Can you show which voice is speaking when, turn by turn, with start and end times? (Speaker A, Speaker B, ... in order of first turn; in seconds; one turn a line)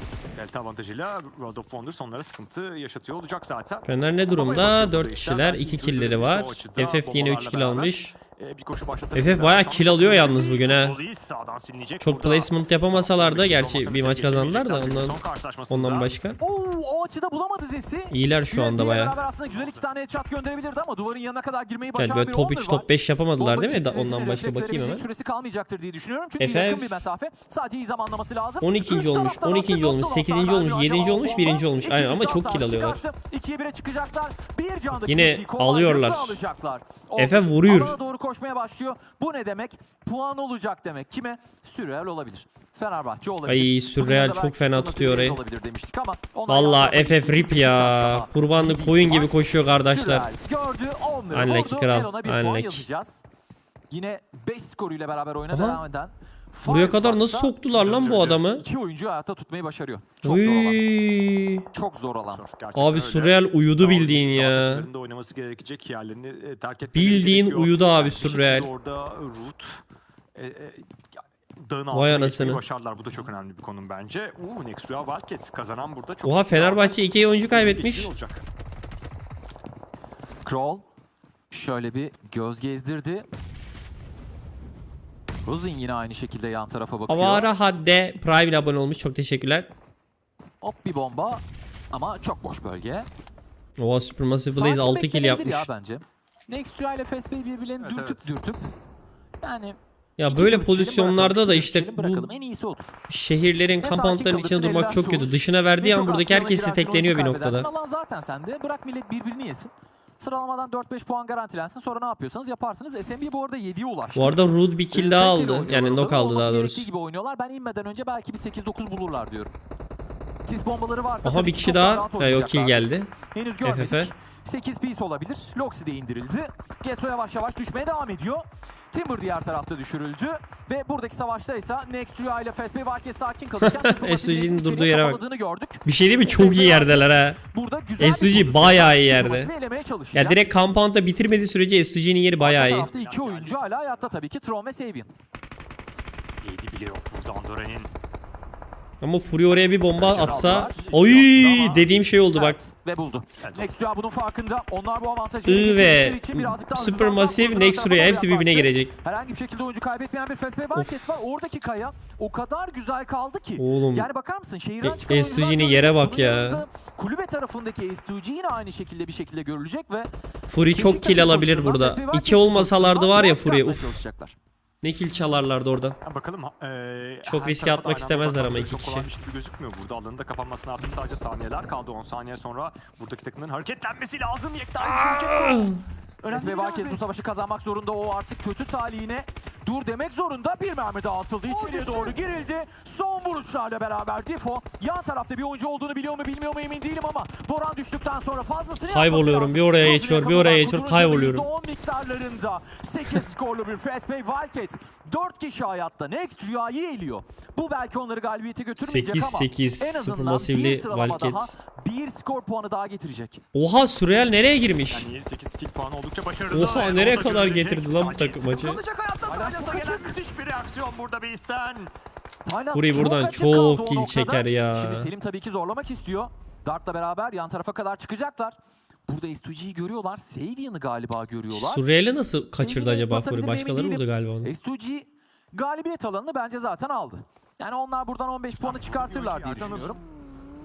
Speaker A: 0.3-16.1
Speaker B: 3.8-8.2
Speaker B: 9.1-11.0
Speaker B: 12.0-16.4
Speaker C: 16.4-53.2
Speaker B: 18.1-19.1
Speaker A: 19.4-19.9
Speaker B: 21.9-25.0
Speaker B: 26.4-27.0
Speaker B: 28.6-33.0
Speaker B: 34.9-36.4
Speaker B: 37.2-38.0
Speaker B: 43.5-45.4
Speaker B: 46.5-50.3
Speaker B: 51.3-52.9
Speaker C: 53.9-57.5
Speaker B: 55.5-55.8
Speaker B: 56.6-58.6
Speaker A: 57.7-58.5
Speaker C: 58.5-60.8
Speaker B: 60.2-61.6
Speaker C: 61.7-62.4
Speaker A: 62.3-69.8
Speaker B: 62.7-64.9
Speaker B: 66.9-68.7
Speaker A: 70.3-71.0
Speaker A: 71.6-78.4
Speaker B: 71.9-72.6
Speaker B: 76.2-78.1
Speaker C: 80.4-80.8
Speaker C: 81.5-83.3
Speaker C: 85.4-87.5
Speaker B: 87.1-89.7
Speaker C: 90.6-93.1
Speaker B: 93.8-95.7
Speaker C: 94.5-98.7
Speaker A: 97.8-98.3
Speaker C: 99.4-103.0
Speaker B: 100.2-102.3
Speaker B: 103.1-107.7
Speaker C: 103.8-119.5
Speaker B: 114.1-116.9
Speaker C: 120.5-140.5
Speaker B: 121.2-123.1
Speaker B: 123.6-124.1
Speaker B: 133.6-135.2
Speaker B: 135.8-137.4
Speaker B: 138.0-139.5
Speaker B: 140.1-142.9
Speaker C: 142.4-145.1
Speaker A: 142.6-144.1
Speaker A: 146.4-147.9
Speaker B: 149.0-152.6
Speaker A: 149.9-151.9
Speaker C: 150.1-150.9
Speaker C: 152.3-170.1
Speaker A: 153.4-153.7
Speaker B: 155.5-158.9
Speaker B: 160.7-161.1
Speaker B: 163.6-164.1
Speaker B: 164.8-166.6
Speaker B: 170.5-173.9
Speaker C: 170.7-174.3
Speaker B: 174.8-176.0
Speaker A: 176.0-187.0
Speaker B: 177.2-179.1
Speaker B: 184.8-185.8
Speaker C: 186.3-213.4
Speaker A: 191.4-192.2
Speaker B: 198.9-201.5
Speaker B: 208.8-211.5
Speaker B: 213.5-215.1
Speaker A: 214.9-221.9
Speaker B: 216.5-218.8
Speaker C: 219.3-220.1
Speaker C: 222.4-228.6
Speaker B: 222.7-225.1
Speaker C: 229.1-231.8
Speaker B: 231.5-234.5
Speaker C: 232.6-240.0
Speaker A: 238.6-240.0